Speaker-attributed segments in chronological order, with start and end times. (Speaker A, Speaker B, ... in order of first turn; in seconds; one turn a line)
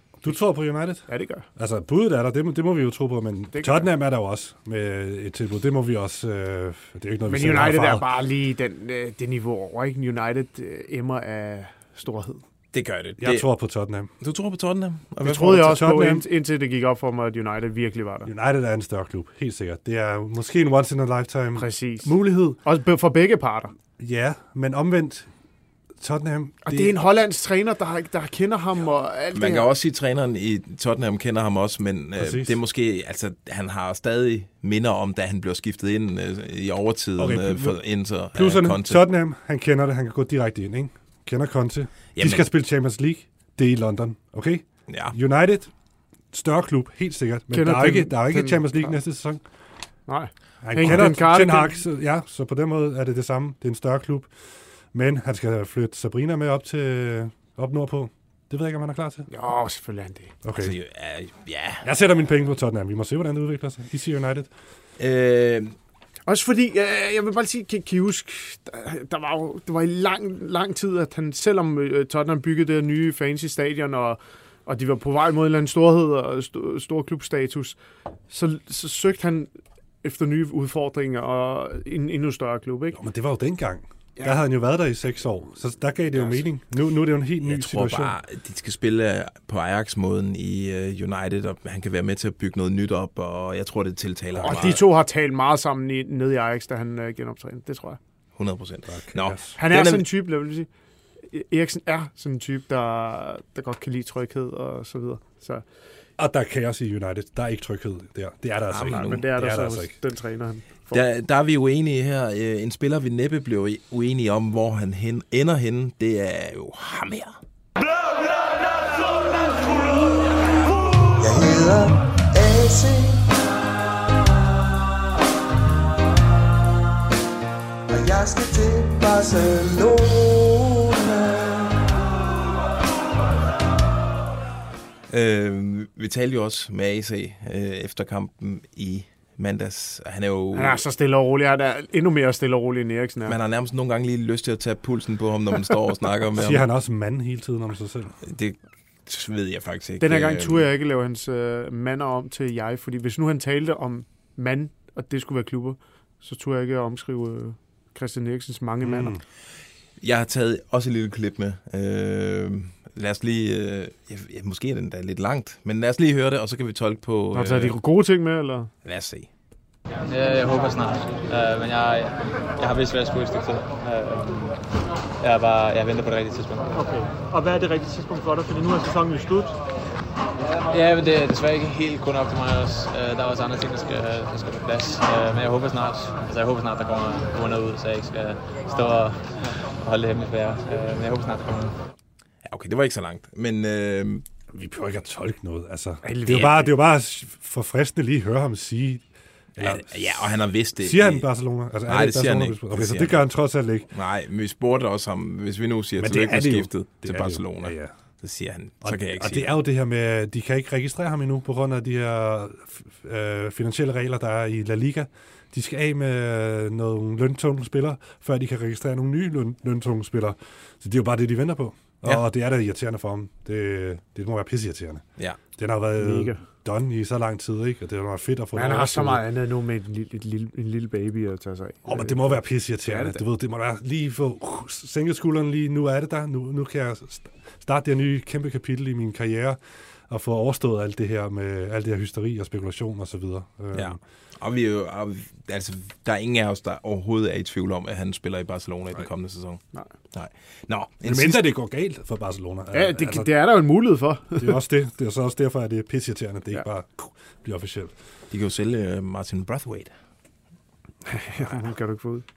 Speaker A: 0.2-8.1
Speaker B: 1.1-1.4
Speaker B: 3.5-3.9
Speaker B: 7.3-12.4
Speaker C: 12.7-13.5
Speaker A: 13.2-14.1
Speaker C: 14.2-15.6
Speaker B: 15.2-18.3
Speaker A: 15.3-16.2
Speaker A: 18.2-22.6
Speaker B: 21.6-23.7
Speaker A: 24.0-25.3
Speaker A: 26.0-26.9
Speaker B: 26.6-29.7
Speaker C: 29.3-39.0
Speaker A: 32.2-32.5
Speaker A: 37.2-37.8
Speaker A: 38.3-45.7
Speaker C: 42.1-42.4
Speaker C: 44.9-45.1
Speaker A: 46.3-49.4
Speaker B: 47.5-49.0
Speaker B: 50.1-51.8
Speaker A: 50.6-54.3
Speaker A: 54.9-59.3
Speaker B: 59.3-60.3
Speaker A: 60.4-60.7
Speaker C: 60.6-61.9
Speaker A: 61.8-64.5
Speaker C: 65.0-65.8
Speaker B: 66.3-77.8
Speaker B: 78.3-79.5
Speaker B: 80.0-83.0
Speaker A: 82.9-88.2
Speaker C: 87.4-94.8
Speaker B: 94.4-98.0
Speaker C: 98.3-100.0
Speaker A: 98.9-99.5
Speaker B: 99.5-100.7
Speaker B: 101.2-105.6
Speaker A: 106.2-109.9
Speaker C: 108.7-109.2
Speaker B: 108.8-111.0
Speaker C: 110.9-117.3
Speaker D: 121.2-123.4
Speaker D: 127.9-131.9
Speaker C: 135.1-140.8
Speaker B: 140.5-143.3
Speaker C: 143.2-146.7
Speaker A: 146.4-148.2
Speaker C: 148.2-150.7
Speaker B: 150.0-159.2
Speaker A: 158.8-159.2
Speaker C: 160.0-167.8
Speaker B: 167.3-168.7
Speaker C: 168.8-169.3
Speaker E: 170.1-174.6
Speaker E: 175.2-176.7
Speaker F: 176.7-179.6
Speaker E: 180.6-191.7
Speaker C: 192.4-194.2
Speaker A: 194.5-203.9
Speaker B: 196.0-196.7
Speaker C: 199.6-201.3
Speaker C: 201.9-203.2
Speaker C: 203.9-209.5
Speaker A: 206.0-207.9
Speaker A: 208.8-229.2
Speaker B: 226.0-226.4
Speaker B: 228.6-233.2
Speaker A: 231.8-244.0
Speaker C: 243.7-251.4
Speaker A: 251.0-253.3
Speaker B: 252.7-254.5
Speaker A: 254.4-257.9
Speaker C: 258.3-259.9
Speaker B: 261.1-262.2